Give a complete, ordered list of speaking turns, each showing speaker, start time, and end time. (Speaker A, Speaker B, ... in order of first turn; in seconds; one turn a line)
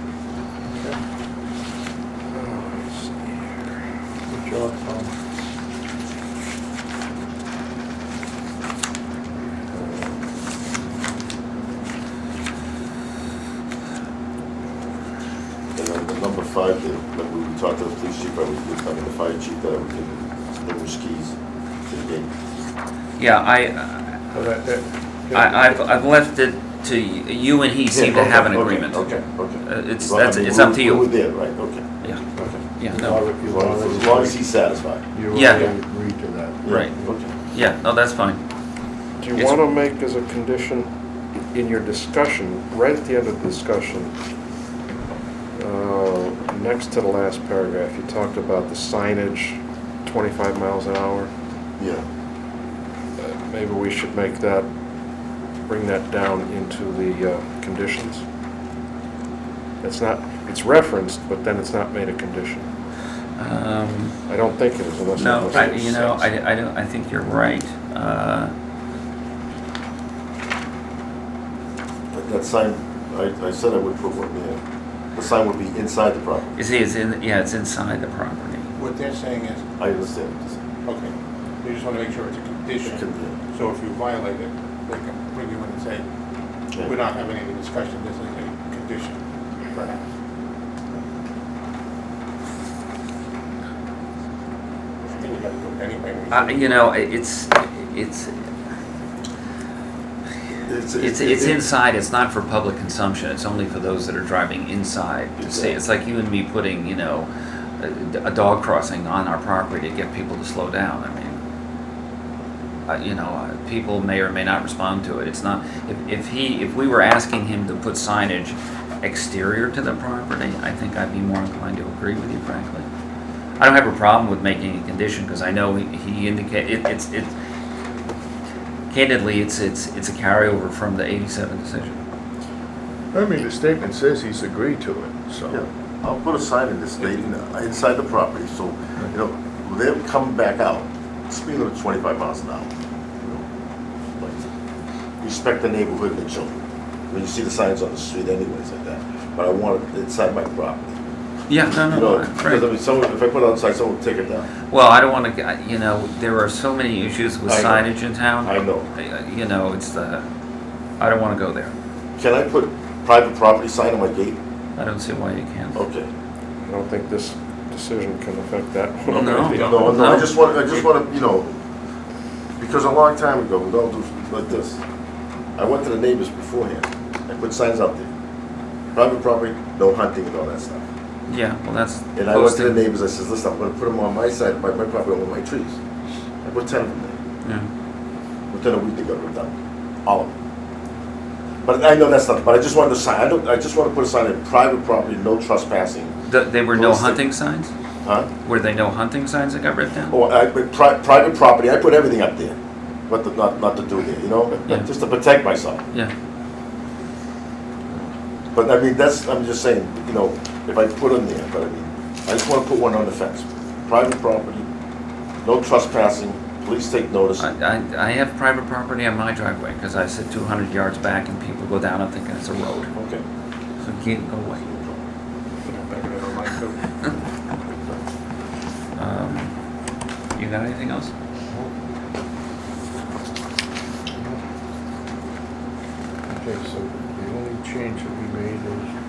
Speaker A: 2.3-3.7
Speaker B: 4.3-5.1
Speaker C: 15.7-21.3
Speaker C: 21.9-22.3
Speaker D: 23.2-24.2
Speaker B: 24.4-24.7
Speaker B: 25.3-25.7
Speaker D: 25.3-29.1
Speaker C: 27.9-32.6
Speaker D: 29.6-31.1
Speaker D: 32.8-33.2
Speaker B: 32.9-34.4
Speaker C: 33.4-35.6
Speaker B: 35.1-36.6
Speaker D: 35.3-35.7
Speaker C: 36.6-37.3
Speaker D: 36.7-36.9
Speaker D: 37.5-38.4
Speaker A: 39.2-40.9
Speaker A: 41.5-44.1
Speaker A: 45.5-51.3
Speaker C: 51.8-52.0
Speaker A: 53.2-54.6
Speaker A: 55.7-58.2
Speaker A: 59.8-62.6
Speaker D: 63.4-64.1
Speaker A: 64.3-66.2
Speaker D: 65.1-68.5
Speaker C: 65.6-66.1
Speaker C: 72.1-74.6
Speaker C: 75.1-76.6
Speaker D: 76.5-78.7
Speaker E: 78.8-79.6
Speaker C: 79.8-80.6
Speaker E: 80.8-86.0
Speaker C: 82.8-83.4
Speaker E: 86.8-89.2
Speaker E: 89.7-90.0
Speaker E: 95.1-96.8
Speaker D: 96.3-98.4
Speaker C: 100.7-101.6
Speaker D: 101.0-107.3
Speaker C: 105.4-105.8
Speaker D: 107.8-111.4
Speaker D: 112.9-122.8
Speaker D: 123.6-127.3
Speaker D: 128.9-132.0
Speaker B: 133.1-135.6
Speaker C: 135.5-142.7
Speaker C: 145.2-146.6
Speaker C: 147.1-151.0
Speaker D: 151.5-152.7
Speaker C: 151.8-154.5
Speaker D: 154.7-160.2
Speaker C: 157.4-157.9
Speaker C: 158.4-158.9
Speaker D: 161.0-161.7
Speaker C: 162.2-164.4
Speaker D: 164.8-165.8
Speaker C: 165.7-166.1
Speaker A: 166.6-169.7
Speaker D: 169.1-170.3
Speaker E: 169.1-170.9
Speaker C: 169.5-171.5
Speaker C: 172.6-174.8
Speaker C: 175.6-178.1
Speaker C: 178.9-180.8
Speaker D: 181.3-182.8
Speaker C: 182.1-185.8
Speaker C: 186.4-187.1
Speaker D: 187.4-187.7
Speaker C: 188.5-189.5
Speaker C: 190.0-190.3
Speaker C: 191.6-196.1
Speaker D: 196.3-197.7
Speaker C: 196.7-197.2
Speaker C: 198.0-198.3
Speaker D: 198.4-200.2
Speaker C: 200.1-202.6
Speaker C: 203.1-205.8
Speaker C: 208.5-214.6
Speaker C: 215.4-217.5
Speaker D: 217.4-222.9
Speaker C: 222.9-223.2
Speaker D: 223.8-224.6
Speaker C: 224.5-225.0
Speaker E: 225.7-226.8
Speaker D: 229.0-229.5
Speaker D: 230.3-231.1
Speaker B: 236.3-238.8